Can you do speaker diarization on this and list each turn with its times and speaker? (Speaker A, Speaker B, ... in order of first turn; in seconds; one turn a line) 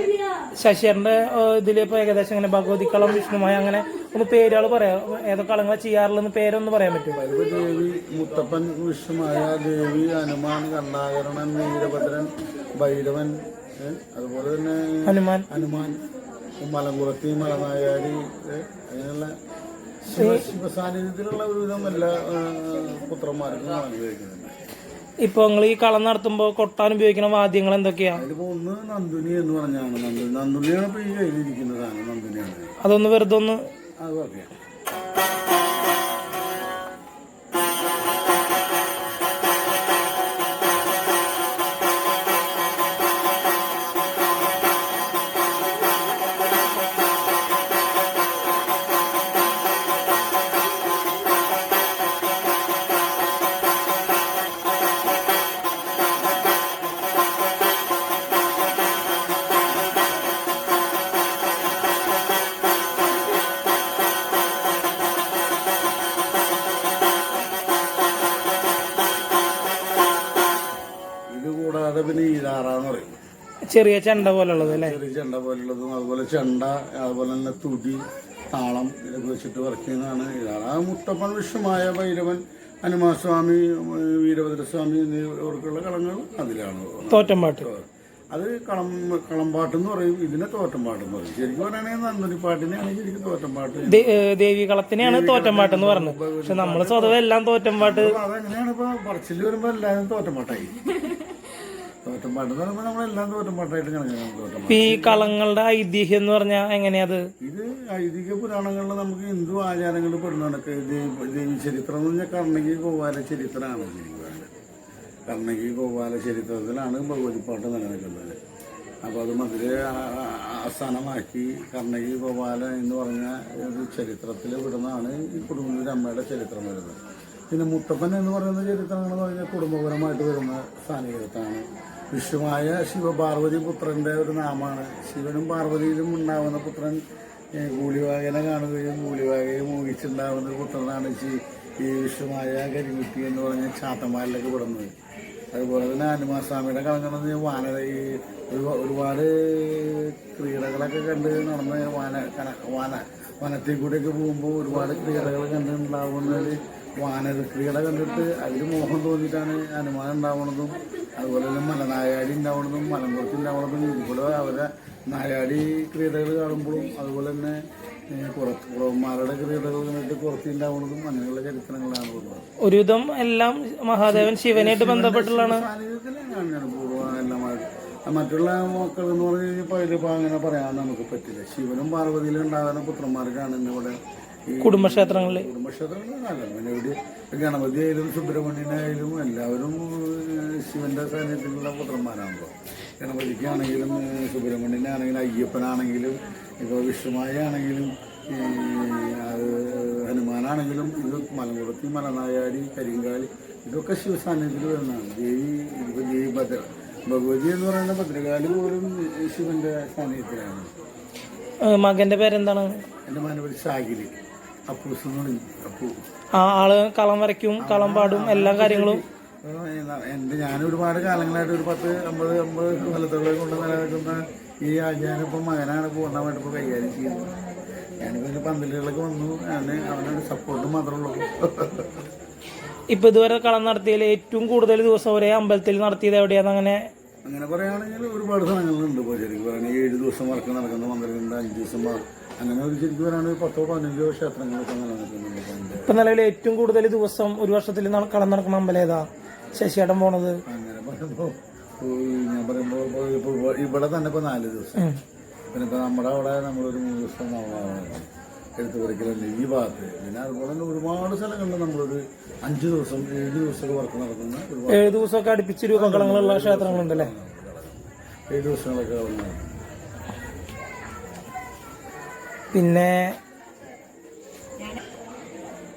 Speaker A: 0.6-7.2
Speaker B: 7.1-16.0
Speaker A: 15.1-15.4
Speaker B: 16.6-19.3
Speaker B: 20.0-24.5
Speaker A: 20.1-20.4
Speaker A: 25.2-28.2
Speaker B: 28.1-32.7
Speaker A: 32.8-33.6
Speaker B: 34.0-34.5
Speaker B: 71.3-73.2
Speaker A: 73.7-75.0
Speaker B: 74.5-94.2
Speaker A: 87.1-87.7
Speaker A: 93.9-98.2
Speaker B: 95.0-97.2
Speaker B: 97.8-100.8
Speaker B: 102.0-105.3
Speaker A: 104.7-107.2
Speaker B: 107.4-114.5
Speaker B: 115.3-118.4
Speaker B: 119.0-127.0
Speaker B: 127.5-137.0
Speaker B: 137.6-144.9
Speaker B: 145.5-167.6
Speaker B: 168.1-172.4
Speaker A: 172.6-175.7
Speaker B: 174.0-184.0
Speaker B: 184.5-210.7
Speaker A: 184.6-185.5
Speaker A: 211.6-212.7
Speaker B: 213.1-214.1
Speaker B: 214.7-215.9
Speaker A: 216.3-219.0
Speaker B: 217.6-227.4
Speaker B: 228.0-231.9
Speaker A: 232.9-236.8
Speaker B: 237.2-245.9
Speaker A: 245.9-250.4
Speaker B: 250.5-254.9
Speaker B: 255.5-265.0
Speaker A: 264.7-267.1
Speaker B: 265.7-269.6
Speaker A: 272.5-273.0